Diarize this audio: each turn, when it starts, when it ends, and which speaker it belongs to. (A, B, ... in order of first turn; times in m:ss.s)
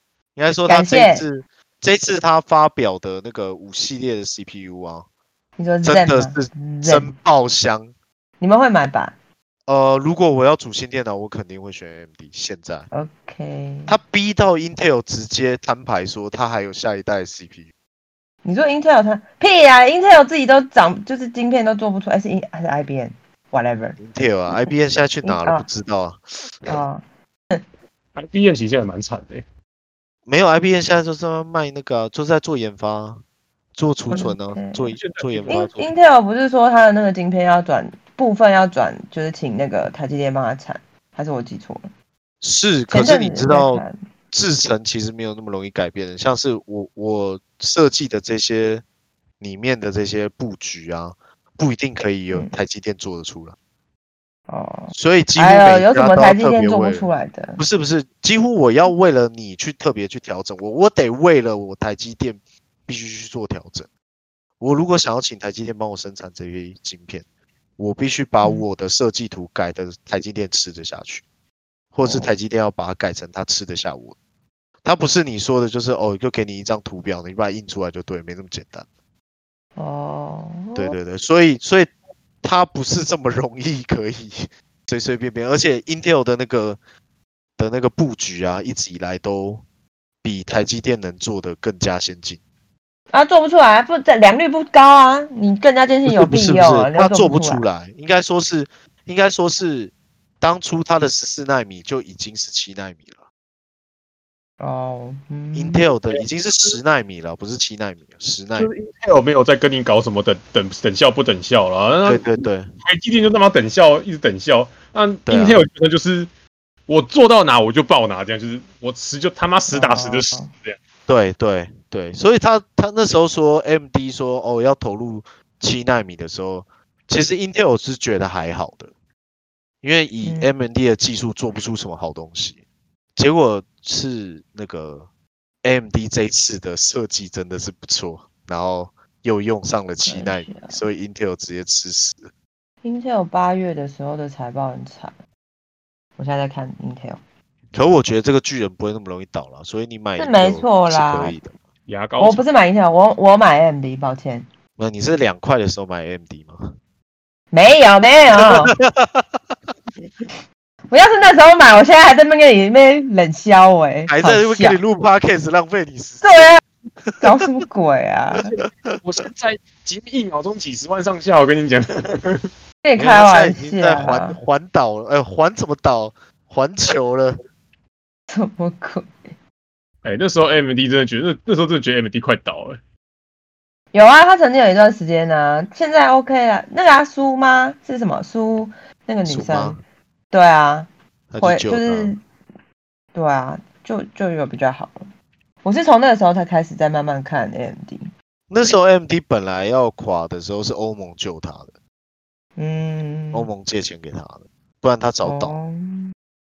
0:00.4-0:05.1 A
0:00.7-0:01.2 B
0:05.6-0:07.1 B
0:05.8-0:07.9 A
0:08.4-0:09.2 B
0:09.7-0:12.9 A
0:12.9-0:14.0 B
0:13.9-0:17.7 A
0:18.4-0:24.0 B
0:24.0-0:26.7 A
0:25.2-0:25.6 B
0:26.7-0:27.6 B
0:28.1-0:29.4 C
0:30.3-0:33.2 A
0:33.7-0:35.8 A
0:34.1-0:34.9 B
0:35.0-0:35.7 C
0:35.5-0:41.9 B
0:42.4-0:48.8 A
0:42.9-0:44.0 B
0:49.4-0:53.6 A
0:54.5-0:57.6 B
0:54.9-1:03.9 A
1:04.6-1:07.2 A
1:07.8-1:11.2 A
1:11.9-1:14.2 A
1:14.8-1:18.8 A
1:19.8-1:21.0 B
1:20.7-1:26.8 A
1:27.6-1:29.6 A
1:30.2-1:32.4 A
1:33.1-1:37.6 B
1:36.1-1:43.2 A
1:44.6-1:45.8 B
1:45.5-1:48.7 A
1:46.1-1:46.8 C
1:48.6-1:56.3 C
1:52.0-1:52.7 A
1:55.2-1:55.6 A
1:56.9-2:00.8 C
1:59.7-2:00.5 B
2:01.1-2:08.9 A
2:09.8-2:12.6 A
2:10.2-2:10.5 B
2:13.2-2:15.1 A
2:15.6-2:22.3 A
2:20.0-2:20.8 B
2:22.8-2:25.2 B
2:26.2-2:27.2 B
2:27.7-2:31.5 A
2:30.2-2:31.4 B
2:31.9-2:32.4 C
2:32.2-2:34.5 B
2:34.8-2:36.7 A
2:37.5-2:38.7 B
2:38.4-2:39.3 A
2:40.9-2:44.8 B
2:44.1-2:47.2 A
2:46.2-2:46.6 B
2:47.2-2:48.5 B
2:48.5-2:52.5 C
2:52.8-2:54.4 B
2:53.0-2:57.4 A
2:58.3-2:59.1 B
3:00.0-3:02.8 C
3:03.9-3:09.8 B
3:09.2-3:09.8 A
3:10.3-3:10.9 B
3:11.3-3:12.1 A
3:11.4-3:12.2 B
3:13.1-3:15.1 B
3:15.6-3:18.1 B
3:18.5-3:21.7 A
3:22.6-3:23.5 B
3:23.3-3:25.6 A
3:25.2-3:26.1 B